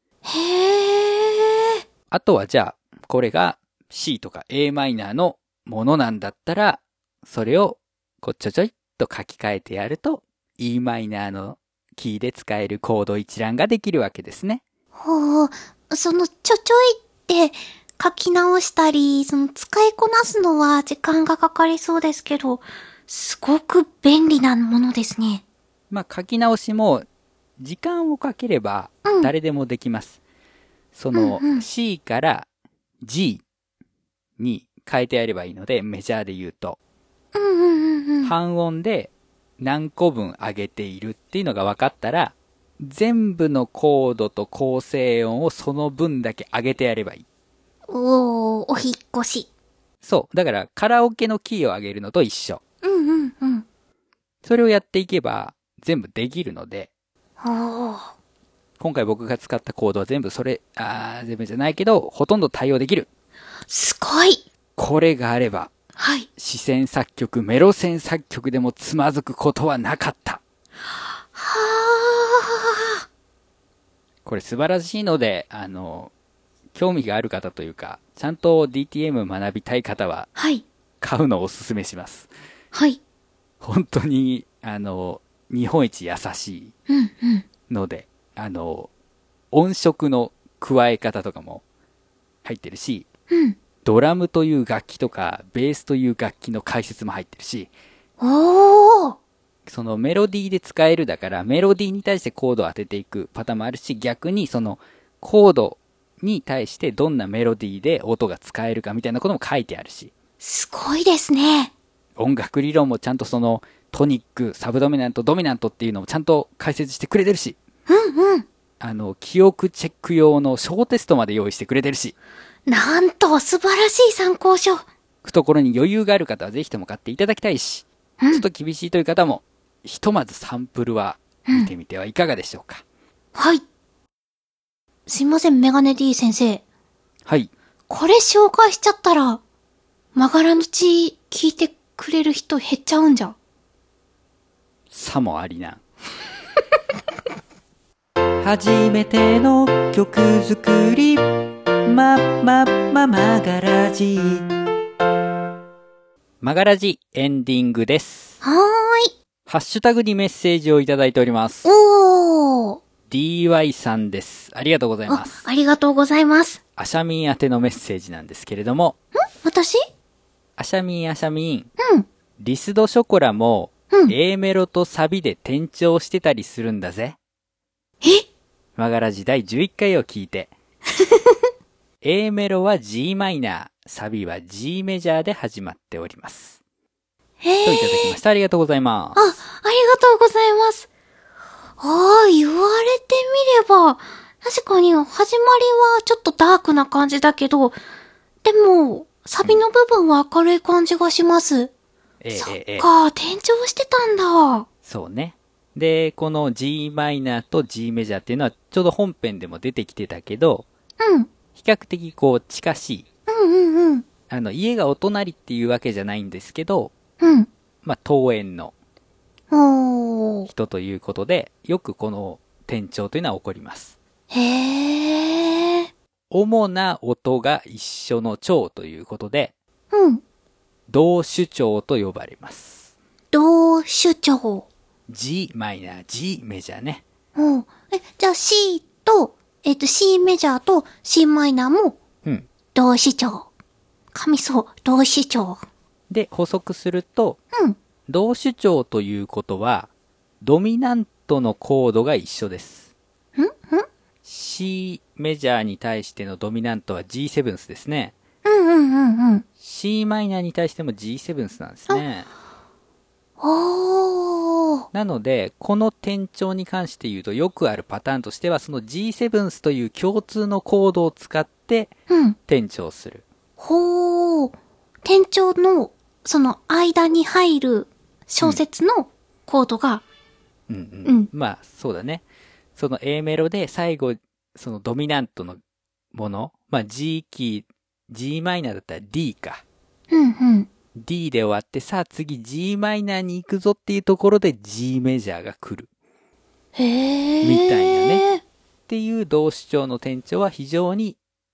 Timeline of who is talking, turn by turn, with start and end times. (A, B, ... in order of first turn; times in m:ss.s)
0:00.2-0:01.5 A
0:02.1-0:14.6 B
0:15.0-0:25.4 A
0:25.9-0:27.1 B
0:27.6-0:30.2 B
0:29.0-0:29.3 A
0:31.0-0:32.5 B
0:31.1-0:31.7 A
0:33.0-0:33.4 B
0:34.4-0:36.8 B
0:37.3-0:38.3 A
0:38.2-0:47.2 B
0:47.9-0:49.5 A
0:50.0-0:52.6 B
0:52.8-0:53.6 A
0:54.4-0:56.9 B
0:57.4-0:58.1 A
0:58.8-1:03.1 B
1:03.7-1:04.4 A
1:04.8-1:05.7 B
1:06.0-1:06.3 A
1:06.4-1:10.4 B
1:11.3-1:12.7 A
1:14.2-1:16.1 B
1:16.7-1:20.3 B
1:20.4-1:20.6 A
1:21.0-1:22.3 B
1:22.7-1:23.0 A
1:23.6-1:26.7 B
1:26.9-1:27.4 A
1:27.7-1:28.9 B
1:29.5-1:31.6 B
1:32.4-1:33.1 B
1:33.3-1:33.6 A
1:33.8-1:37.7 B
1:38.2-1:39.2 A
1:39.7-1:50.1 B
1:50.4-1:51.7 A
1:52.2-1:57.6 B
1:57.9-1:58.5 A
1:58.8-2:02.2 B
2:02.7-2:04.8 A
2:05.2-2:12.8 B
2:08.2-2:08.4 A
2:13.4-2:13.6 A
2:15.1-2:16.6 A
2:17.3-2:17.5 B
2:17.9-2:19.4 A
2:20.2-2:23.4 A
2:24.9-2:25.8 B
2:28.4-2:34.6 B
2:36.4-2:38.4 B
2:38.4-2:39.1 A
2:39.5-2:41.7 B
2:41.6-2:42.8 A
2:43.1-2:45.4 B
2:45.1-2:46.6 A
2:46.8-2:49.0 B
2:49.2-2:49.8 A
2:50.6-2:51.7 B
2:51.8-2:52.1 A
2:52.4-2:57.2 B
2:58.8-3:00.5 B
3:01.0-3:01.4 A
3:02.0-3:06.6 B
3:07.4-3:08.2 A
3:07.6-3:09.2 B
3:09.2-3:10.9 A
3:11.8-3:17.8 A
3:18.4-3:21.7 A
3:22.2-3:22.9 B
3:22.3-3:24.7 A
3:24.8-3:30.7 B
3:31.0-3:31.3 A
3:31.6-3:33.1 B
3:33.3-3:34.0 A
3:34.3-3:36.9 B
3:37.2-3:37.5 A
3:37.8-3:38.7 B
3:39.5-3:40.5 A
3:40.5-3:43.9 B
3:44.3-3:45.9 A
3:46.3-3:49.5 B
3:49.9-3:50.2 A
3:50.9-3:52.9 B
3:53.3-3:54.7 A
3:55.1-3:57.0 B
3:57.4-4:02.0 A
4:02.8-4:03.5 A
4:04.1-4:05.6 A
4:06.1-4:07.4 B
4:08.1-4:09.9 B
4:10.4-4:12.9 B
4:13.4-4:13.9 A
4:14.2-4:18.1 B
4:18.4-4:19.4 A
4:19.6-4:22.3 B
4:23.4-4:24.9 A
4:24.9-4:31.9 B
4:32.1-4:32.4 A
4:32.5-4:33.2 B
4:33.6-4:40.0 A
4:40.7-4:42.2 B
4:42.8-4:45.6 B
4:46.1-4:49.6 B
4:50.1-4:50.7 A
4:51.0-4:55.9 B
4:56.8-4:58.4 A
4:57.4-4:58.2 B
4:58.9-5:01.2 B